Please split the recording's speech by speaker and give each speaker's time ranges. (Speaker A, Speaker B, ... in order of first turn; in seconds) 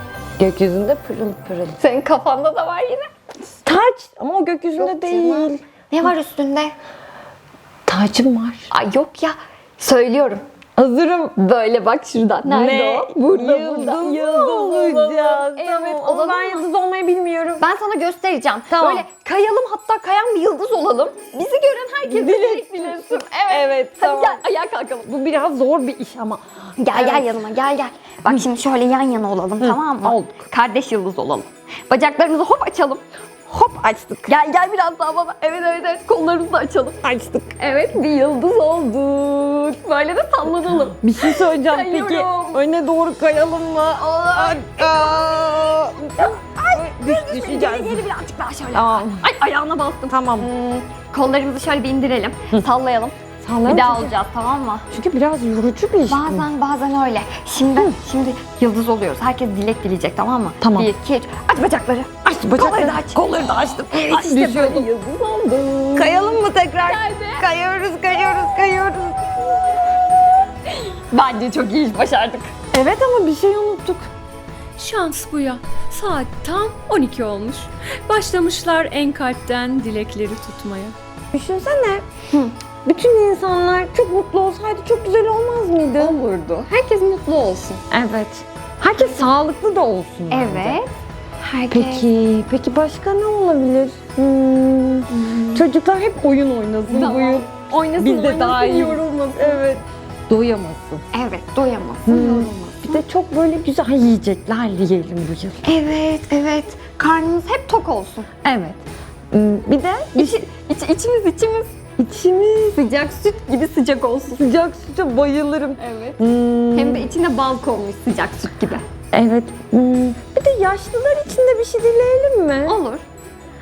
Speaker A: 0.4-1.8, 3.6-5.6, 7.9-8.7, 10.8-11.3, 12.4-17.6, 18.7-19.0, 22.0-24.4, 25.0-27.4, 29.6-30.4, 33.5-34.3, 37.0-37.5, 40.6-48.1, 48.7-49.3, 50.1-50.5, 53.4-54.1, 54.9-56.5, 60.6-60.9, 62.2-64.9, 65.9-69.8, 72.7-74.1, 81.3-82.0, 82.8-86.2, 87.9-90.8, 91.7-101.0, 102.1-105.6, 108.4-110.4, 112.0-112.8, 114.3-117.1, 119.1-122.8
Speaker B: 1.8-3.1, 4.8-6.8, 8.7-10.4, 11.3-16.7, 17.6-25.0, 26.8-33.0, 34.3-37.0, 37.6-42.6, 44.0-53.1, 53.7-54.9, 56.1-66.3, 71.1-72.6, 86.0-87.8, 90.3-92.0, 96.9-99.3, 101.1-103.0, 105.6-108.3, 110.2-111.8, 112.7-114.4, 115.8-116.2, 116.7-118.8, 122.7-123.0
Speaker C: 66.8-67.5, 74.8-80.9